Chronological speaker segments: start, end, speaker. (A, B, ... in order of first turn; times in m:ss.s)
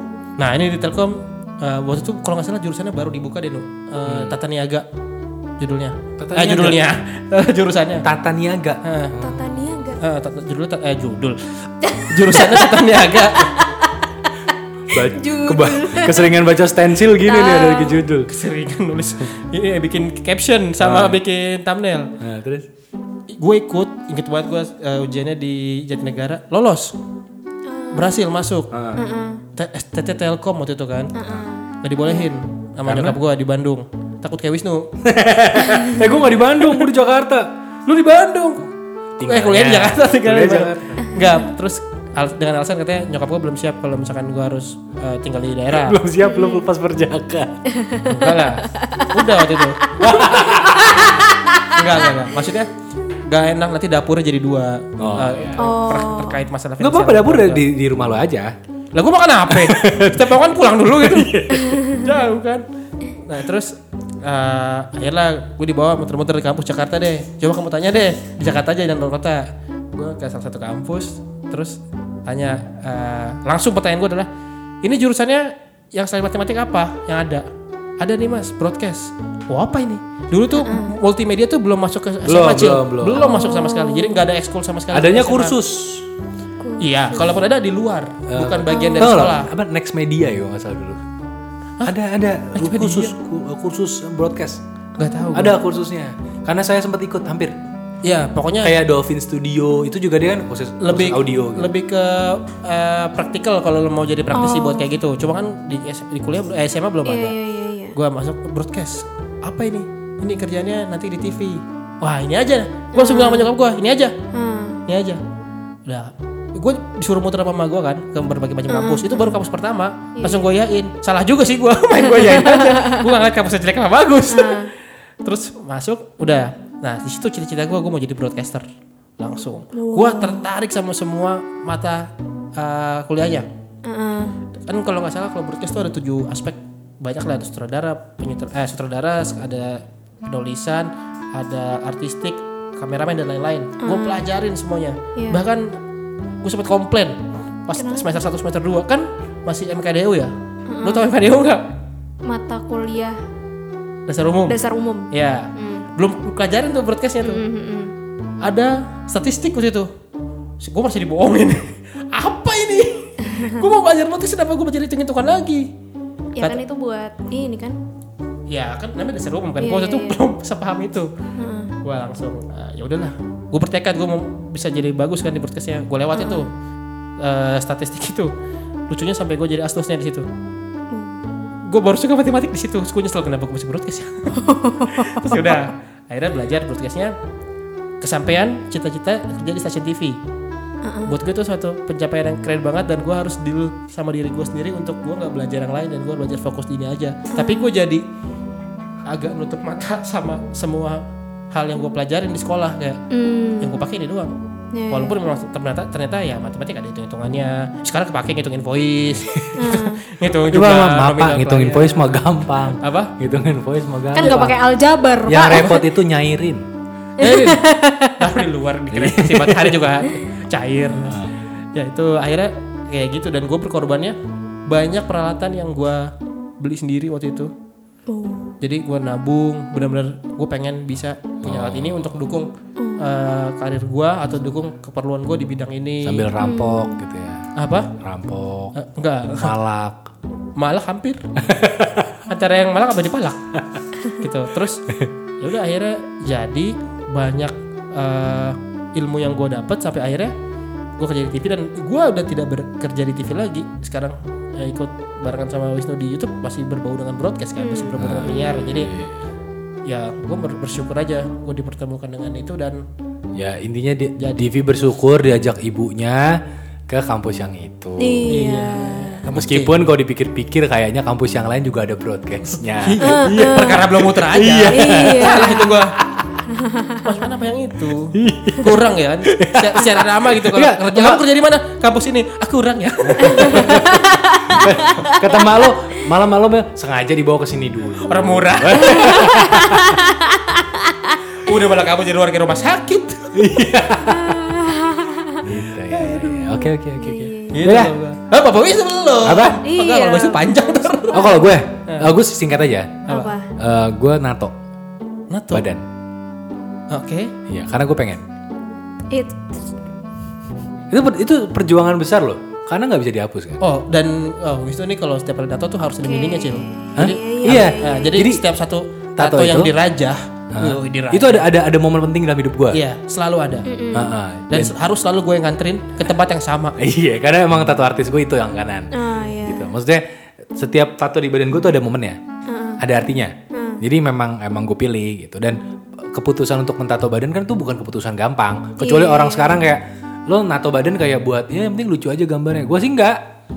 0:00.4-0:04.8 A
0:04.0-0:04.4 B
0:05.6-0:08.0 A
0:06.2-0:06.8 B
0:08.0-0:09.6 B
0:08.8-0:09.1 A
0:09.2-0:10.0 C
0:10.0-0:13.5 A
0:11.8-0:13.9 C
0:14.8-0:18.3 B
0:14.9-0:16.3 C
0:17.2-0:18.0 C
0:18.3-0:22.1 A
0:20.8-0:21.2 B
0:22.2-0:22.7 B
0:23.3-0:27.0 A
0:27.6-0:28.2 C
0:27.9-0:28.7 A
0:28.7-0:29.0 B
0:29.0-0:29.4 C
0:29.5-0:31.1 A
0:31.1-0:32.3 C
0:31.8-0:34.9 A
0:32.8-0:33.2 B
0:35.0-0:37.5 B
0:35.7-0:36.0 C
0:37.8-0:46.0 A
0:39.2-0:41.1 B
0:45.7-0:47.7 B
0:46.2-0:46.6 C
0:47.7-0:49.1 C
0:48.1-0:49.8 A
0:50.0-0:51.3 B
0:50.8-0:51.1 C
0:51.7-0:57.6 A
0:55.0-0:55.6 B
0:55.6-0:56.4 C
0:56.8-0:58.5 B
0:58.9-1:02.6 A
0:59.5-1:01.8 B
1:03.2-1:14.3 A
1:14.8-1:17.4 A
1:18.0-1:25.6 A
1:20.6-1:20.9 C
1:22.2-1:23.2 B
1:23.2-1:24.3 C
1:24.9-1:26.0 B
1:26.6-1:27.3 C
1:26.8-1:29.5 A
1:28.3-1:31.0 B
1:28.7-1:29.2 C
1:31.8-1:34.6 B
1:32.5-1:33.1 A
1:35.0-1:35.6 A
1:35.0-1:35.5 C
1:35.3-1:37.6 B
1:38.0-1:38.7 A
1:38.6-1:41.7 B
1:40.8-1:47.4 A
1:44.3-1:44.9 C
1:47.0-1:48.0 C
1:47.9-1:54.2 A
1:52.9-1:53.5 C
1:54.3-1:54.8 C
1:54.9-1:55.2 A
1:55.8-2:04.7 A
1:58.7-1:59.2 C
2:00.2-2:00.5 C
2:02.2-2:03.1 C
2:04.3-2:04.7 C
2:05.2-2:08.6 A
2:09.2-2:13.5 A
2:09.7-2:10.4 C
2:13.8-2:14.3 C
2:14.6-2:25.8 A
2:23.8-2:24.3 C
2:25.2-2:25.4 C
2:26.4-2:31.7 A
2:27.8-2:28.2 C
2:30.7-2:31.1 C
2:32.2-2:33.2 C
2:34.1-2:37.4 A
2:34.4-2:35.9 C
2:37.2-2:37.9 C
2:38.4-2:39.9 A
2:40.6-2:45.7 A
2:43.3-2:43.6 C
2:46.4-2:47.8 C
2:48.5-2:51.1 A
2:49.6-2:50.2 C
2:51.4-2:51.7 C
2:51.8-2:56.5 A
2:56.2-2:56.5 C
2:57.2-2:58.3 A
2:58.9-3:00.3 A
3:00.9-3:01.2 C
3:01.6-3:07.1 A
3:04.4-3:05.4 C
3:08.0-3:10.2 A
3:10.8-3:11.2 C
3:11.1-3:18.0 A
3:17.4-3:17.6 C
3:19.1-3:23.0 A
3:23.1-3:23.8 C
3:23.6-3:24.3 A
3:24.7-3:25.2 C
3:24.9-3:33.1 A
3:29.5-3:30.0 C
3:30.4-3:34.6 B
3:34.1-3:35.8 C
3:35.2-3:36.6 B
3:35.5-3:35.8 A
3:37.2-3:37.6 A
3:37.2-3:38.4 C
3:38.2-3:47.5 A
3:38.9-3:39.8 B
3:41.0-3:41.3 B
3:48.1-3:48.5 C
3:48.6-3:56.3 A
3:51.4-3:52.0 B
3:52.8-3:53.1 C
3:56.0-3:58.8 B
3:56.4-3:57.0 C
3:57.6-3:57.9 A
3:58.7-3:59.5 A
3:59.3-4:00.1 B
4:00.6-4:01.2 A
4:01.4-4:02.2 B
4:02.2-4:03.4 A
4:04.2-4:04.8 A
4:05.4-4:10.3 A
4:11.0-4:18.9 A
4:17.6-4:18.9 C
4:18.0-4:19.2 B
4:19.8-4:22.8 A
4:23.4-4:28.3 B
4:24.2-4:24.4 A
4:28.0-4:29.2 C
4:28.3-4:29.9 A
4:29.3-4:35.4 B
4:32.7-4:35.9 A
4:33.0-4:33.8 C
4:34.7-4:35.8 C
4:36.1-4:36.4 B
4:36.5-4:37.1 C
4:37.0-4:43.8 A
4:38.1-4:41.2 B
4:43.1-4:50.0 B
4:43.3-4:45.2 C
4:48.0-4:49.3 A
4:48.8-4:51.2 C
4:51.4-4:53.5 A
4:53.3-4:54.5 B
4:54.0-4:55.4 C
4:55.4-4:57.9 B
4:55.9-4:56.6 A
4:56.5-4:57.6 C
4:57.5-5:02.1 A
4:59.2-4:59.6 B
4:59.6-5:01.6 C
5:01.1-5:03.0 B
5:03.1-5:03.5 C
5:03.1-5:03.3 A
5:03.6-5:04.5 B
5:05.3-5:05.6 A
5:05.5-5:05.8 B
5:06.9-5:07.3 A
5:07.5-5:08.2 B
5:09.1-5:09.4 C
5:10.9-5:13.6 B
5:13.6-5:21.5 A
5:16.0-5:18.2 C
5:17.0-5:18.4 B
5:19.2-5:19.7 B
5:20.5-5:22.8 B
5:22.7-5:23.7 A
5:23.6-5:24.1 C
5:23.9-5:24.7 B
5:24.5-5:26.8 A
5:26.8-5:30.0 B
5:28.9-5:29.7 C
5:30.5-5:32.2 B
5:32.5-5:32.8 C
5:32.8-5:43.2 B
5:33.5-5:33.8 C
5:38.8-5:39.6 C